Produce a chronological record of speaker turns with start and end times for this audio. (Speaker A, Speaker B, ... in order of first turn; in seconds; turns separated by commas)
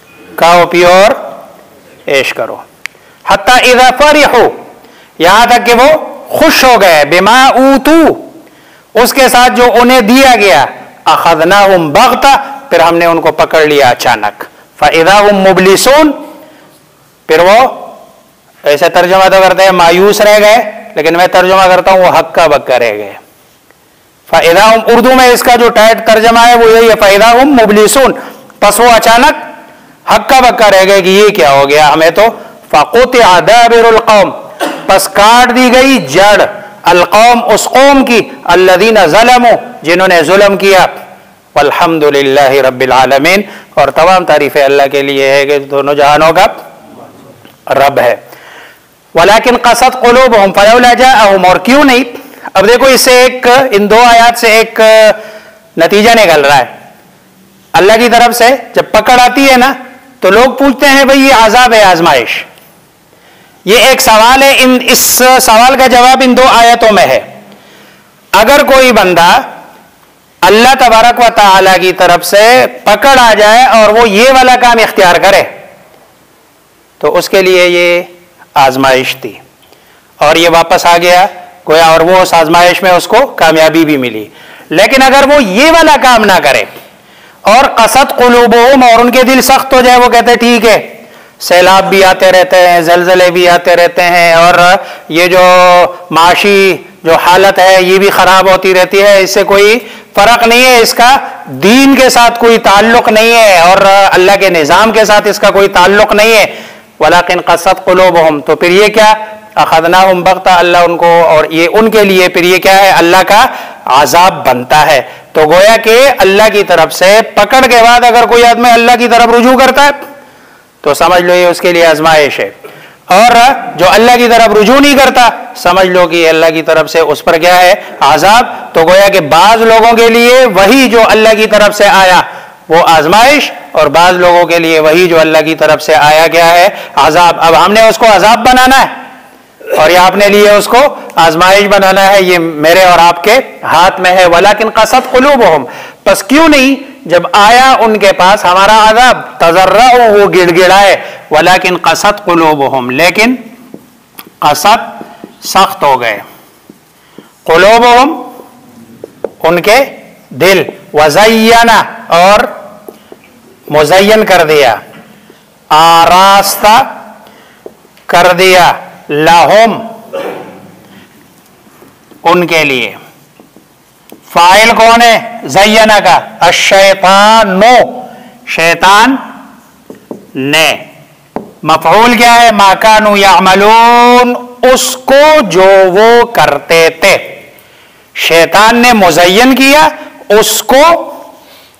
Speaker A: 0.4-1.2, Speaker A: 2.1-2.6, Speaker A: 3.2-4.5, Speaker A: 5.2-8.3, Speaker A: 8.9-16.1, Speaker A: 17.3-17.9, Speaker A: 18.6-23.2, Speaker A: 24.3-29.4, Speaker A: 30.1-40.9, Speaker A: 41.5-46.6, Speaker A: 47.7-48.2, Speaker A: 49.1-55.2, Speaker A: 55.8-56.7, Speaker A: 57.7-62.5, Speaker A: 63.6-67.2, Speaker A: 68.3-69.5, Speaker A: 70.4-75.5, Speaker A: 77.0-79.4, Speaker A: 80.2-86.7, Speaker A: 87.5-90.8, Speaker A: 91.4-120.0, Speaker A: 120.8-122.5, Speaker A: 123.1-138.9, Speaker A: 139.7-153.4, Speaker A: 154.4-156.2, Speaker A: 157.4-158.3, Speaker A: 159.4-162.5, Speaker A: 163.7-164.8, Speaker A: 165.7-166.8, Speaker A: 168.1-169.8, Speaker A: 172.2-173.0, Speaker A: 174.3-179.2, Speaker A: 180.4-180.8, Speaker A: 181.6-187.4, Speaker A: 188.2-191.2